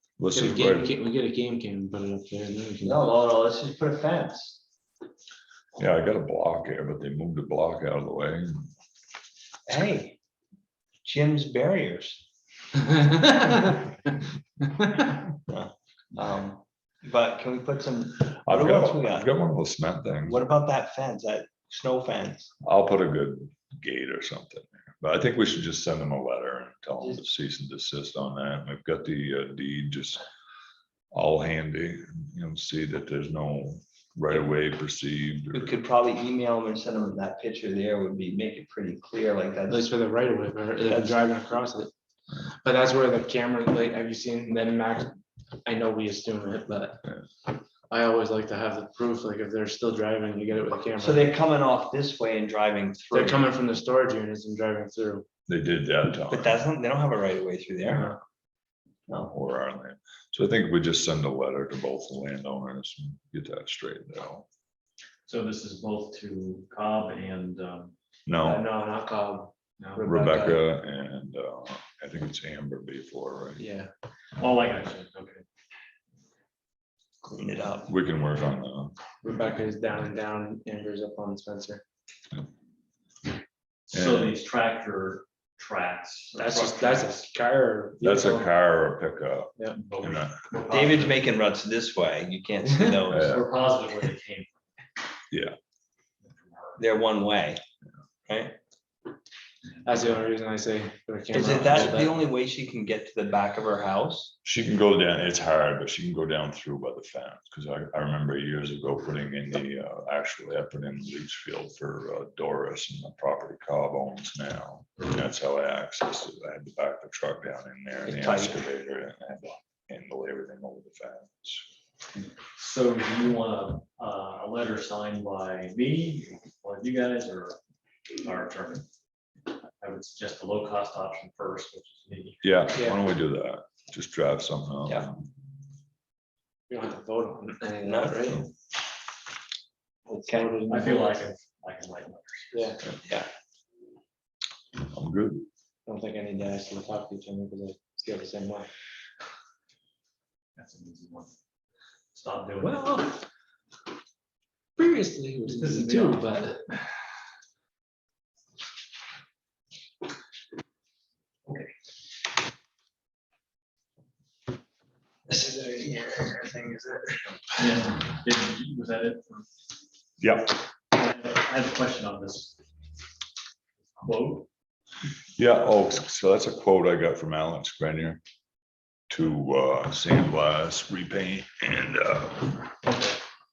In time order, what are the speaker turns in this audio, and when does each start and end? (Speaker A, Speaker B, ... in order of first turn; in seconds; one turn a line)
Speaker A: 0.2-0.9
Speaker B: 0.3-3.0
Speaker C: 2.8-4.6
Speaker A: 5.8-8.7
Speaker C: 9.7-10.2
Speaker C: 11.0-12.2
Speaker B: 12.9-13.9
Speaker B: 14.7-15.1
Speaker C: 15.5-19.3
Speaker A: 18.5-20.4
Speaker C: 20.2-22.5
Speaker A: 22.6-30.2
Speaker A: 31.1-35.7
Speaker C: 35.5-39.9
Speaker B: 39.7-41.9
Speaker C: 40.9-41.2
Speaker B: 42.5-47.0
Speaker B: 47.9-51.4
Speaker C: 51.0-53.5
Speaker B: 53.1-55.3
Speaker A: 55.5-56.6
Speaker C: 56.3-58.1
Speaker B: 57.9-58.2
Speaker A: 59.1-64.5
Speaker D: 65.3-68.0
Speaker A: 68.3-68.7
Speaker B: 68.4-70.6
Speaker A: 70.0-73.6
Speaker B: 73.6-73.9
Speaker D: 74.4-75.5
Speaker C: 77.3-77.9
Speaker A: 77.9-79.0
Speaker B: 79.2-81.8
Speaker D: 83.9-87.2
Speaker A: 83.9-84.4
Speaker B: 86.3-88.5
Speaker A: 88.0-90.4
Speaker D: 89.8-91.3
Speaker C: 90.7-93.3
Speaker D: 93.1-94.6
Speaker A: 93.1-93.5
Speaker A: 95.3-95.6
Speaker D: 96.2-96.8
Speaker C: 96.8-97.6
Speaker C: 98.3-98.6
Speaker B: 99.8-102.2
Speaker C: 101.3-104.3
Speaker A: 104.4-121.7
Speaker C: 118.0-118.6
Speaker D: 122.6-127.6
Speaker D: 128.2-128.8
Speaker D: 129.5-132.5
Speaker A: 132.4-135.3
Speaker B: 132.8-133.0
Speaker B: 136.7-138.5
Speaker C: 137.8-138.4
Speaker B: 140.1-141.2
Speaker D: 140.3-142.8
Speaker B: 142.5-142.8
Speaker A: 144.8-145.5
Speaker B: 145.9-148.7
Speaker D: 150.6-151.3
Speaker D: 152.1-153.2
Speaker B: 154.8-156.6
Speaker D: 155.5-156.4
Speaker D: 161.5-161.7
Speaker C: 165.3-167.4
Speaker D: 167.6-169.5
Speaker A: 170.2-170.6
Speaker D: 170.9-172.6
Speaker D: 174.0-174.5
Speaker A: 175.4-178.2
Speaker A: 179.1-182.7